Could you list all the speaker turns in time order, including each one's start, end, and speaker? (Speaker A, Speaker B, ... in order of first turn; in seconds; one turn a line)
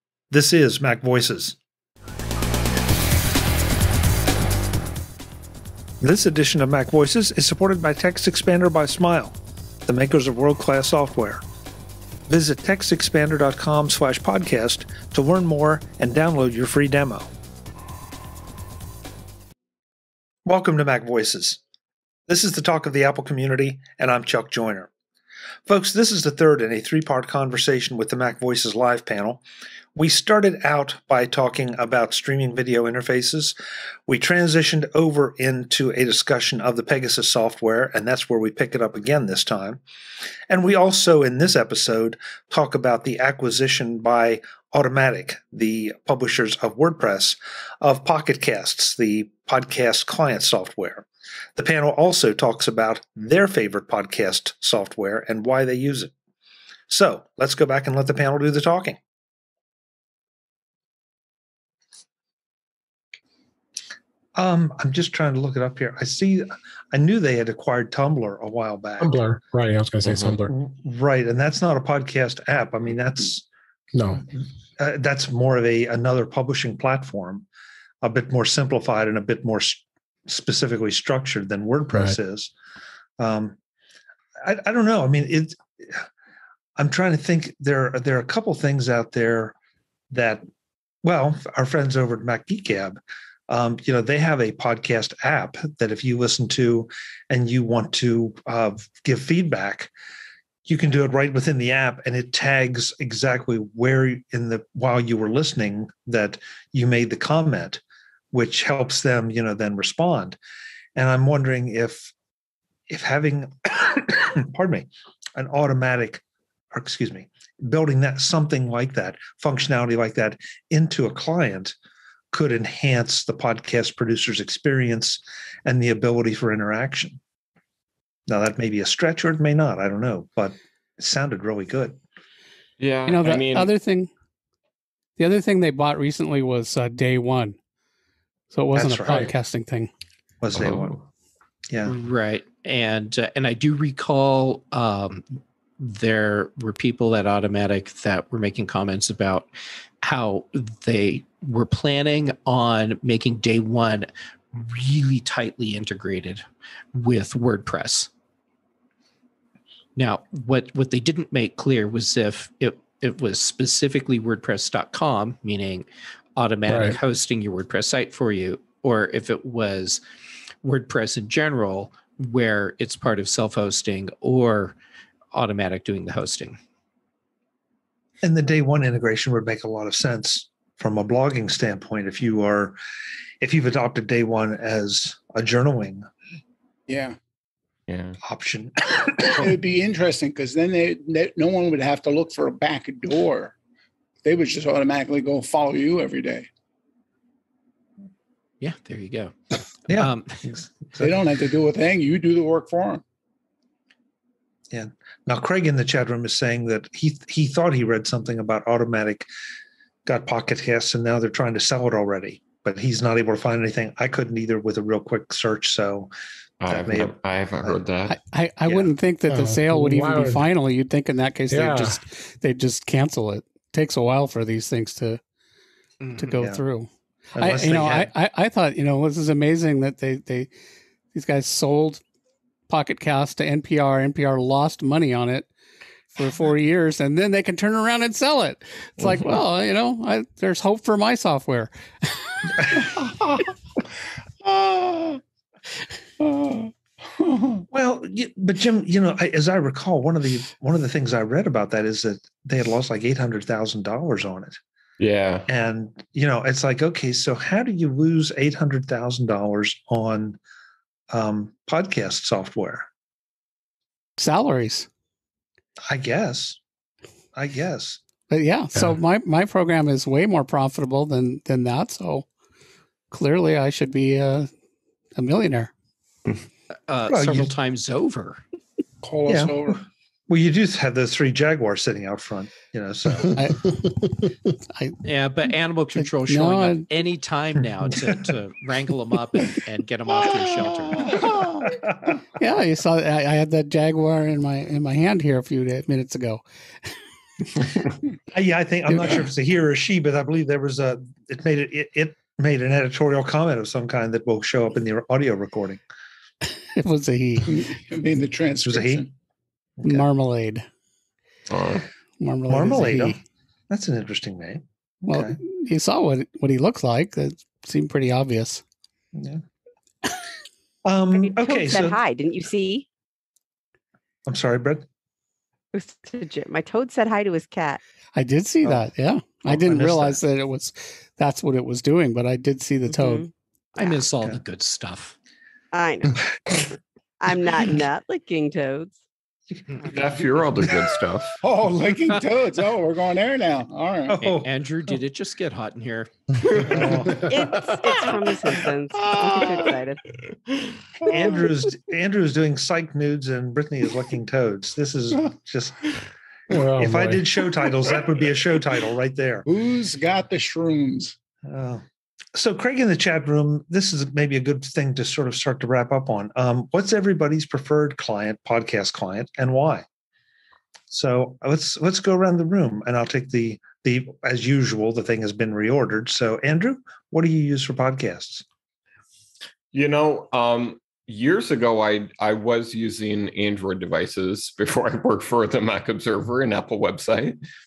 Speaker A: 0.3-1.6
Speaker A: 6.0-11.4
Speaker A: 12.3-17.3
Speaker A: 20.5-21.6
Speaker A: 22.3-24.9
Speaker A: 25.7-29.4
Speaker A: 29.9-33.6
Speaker A: 34.1-39.8
Speaker A: 40.5-56.1
Speaker A: 56.9-59.0
Speaker A: 64.4-69.2
Speaker B: 69.0-70.5
Speaker C: 70.1-70.3
Speaker A: 70.5-73.5
Speaker B: 73.9-74.2
Speaker A: 74.8-77.5
Speaker A: 78.0-82.5
Speaker A: 83.2-83.6
Speaker A: 84.4-86.1
Speaker A: 86.8-89.5
Speaker A: 90.1-90.5
Speaker A: 91.0-99.9
Speaker A: 100.7-107.8
Speaker A: 108.3-110.4
Speaker A: 111.0-112.1
Speaker A: 112.9-121.8
Speaker A: 122.3-127.2
Speaker A: 128.3-132.0
Speaker C: 132.8-133.7
Speaker D: 133.1-134.1
Speaker D: 135.2-137.6
Speaker D: 138.5-139.9
Speaker A: 138.7-139.3
Speaker A: 140.4-141.0
Speaker C: 140.6-140.9
Speaker E: 141.9-149.5
Speaker E: 150.0-158.1
Speaker E: 160.0-165.8
Speaker E: 166.4-170.0
Speaker B: 166.7-167.0
Speaker E: 170.6-174.8
Speaker E: 175.3-176.6
Speaker A: 178.2-182.8
Speaker A: 183.4-186.1
Speaker F: 186.9-187.2
Speaker C: 187.9-188.2
Speaker A: 188.2-189.5
Speaker F: 189.3-193.5
Speaker F: 194.2-196.5
Speaker E: 198.6-199.3
Speaker A: 199.9-201.1
Speaker E: 199.9-200.4
Speaker F: 201.0-203.0
Speaker A: 204.7-209.3
Speaker A: 210.1-216.1
Speaker C: 216.6-218.2
Speaker A: 216.7-217.8
Speaker D: 218.1-225.2
Speaker A: 218.7-218.9
Speaker B: 219.3-220.5
Speaker B: 221.5-222.0
Speaker E: 226.0-226.4
Speaker D: 226.2-230.5
Speaker A: 227.4-228.1
Speaker D: 231.1-232.0
Speaker D: 232.7-235.5
Speaker D: 236.2-242.8
Speaker C: 239.0-239.4
Speaker F: 242.8-243.5
Speaker F: 244.4-245.2
Speaker F: 246.2-247.7
Speaker A: 247.7-254.6
Speaker C: 255.0-255.5
Speaker A: 255.5-260.4
Speaker A: 261.1-262.9
Speaker D: 264.2-264.9
Speaker A: 265.9-266.6
Speaker A: 267.4-268.0
Speaker D: 268.3-272.3
Speaker D: 273.1-274.5
Speaker D: 275.2-275.7
Speaker E: 276.9-278.4
Speaker A: 277.1-277.5
Speaker F: 279.0-279.8
Speaker A: 279.3-283.4
Speaker D: 284.8-285.0
Speaker E: 285.1-291.5
Speaker D: 286.0-286.9
Speaker F: 290.2-291.6
Speaker A: 291.6-292.2
Speaker D: 292.4-296.4
Speaker A: 298.3-305.8
Speaker D: 298.9-299.2
Speaker D: 306.8-307.7
Speaker F: 307.5-309.1
Speaker A: 308.6-309.1
Speaker A: 309.8-310.1
Speaker D: 309.8-310.7
Speaker C: 311.5-311.9
Speaker D: 312.2-313.2
Speaker A: 312.5-313.2
Speaker A: 313.7-315.4
Speaker D: 315.1-318.6
Speaker A: 319.1-319.4
Speaker A: 320.9-322.0
Speaker G: 321.1-322.9
Speaker A: 324.3-324.9
Speaker G: 325.7-327.8
Speaker D: 328.2-333.3
Speaker A: 329.5-330.2
Speaker G: 332.9-334.0
Speaker E: 333.8-335.1
Speaker G: 335.7-338.9
Speaker C: 339.8-341.4
Speaker F: 341.4-344.2
Speaker A: 344.1-344.5
Speaker E: 344.2-346.1
Speaker B: 346.6-347.4
Speaker A: 346.6-347.2
Speaker G: 347.1-350.0
Speaker F: 349.0-349.7
Speaker F: 351.0-351.5
Speaker A: 351.1-355.9
Speaker B: 356.5-357.2
Speaker A: 356.8-359.5
Speaker F: 359.5-361.1
Speaker A: 361.5-361.8
Speaker A: 362.4-369.9
Speaker A: 370.9-378.4
Speaker C: 379.7-387.4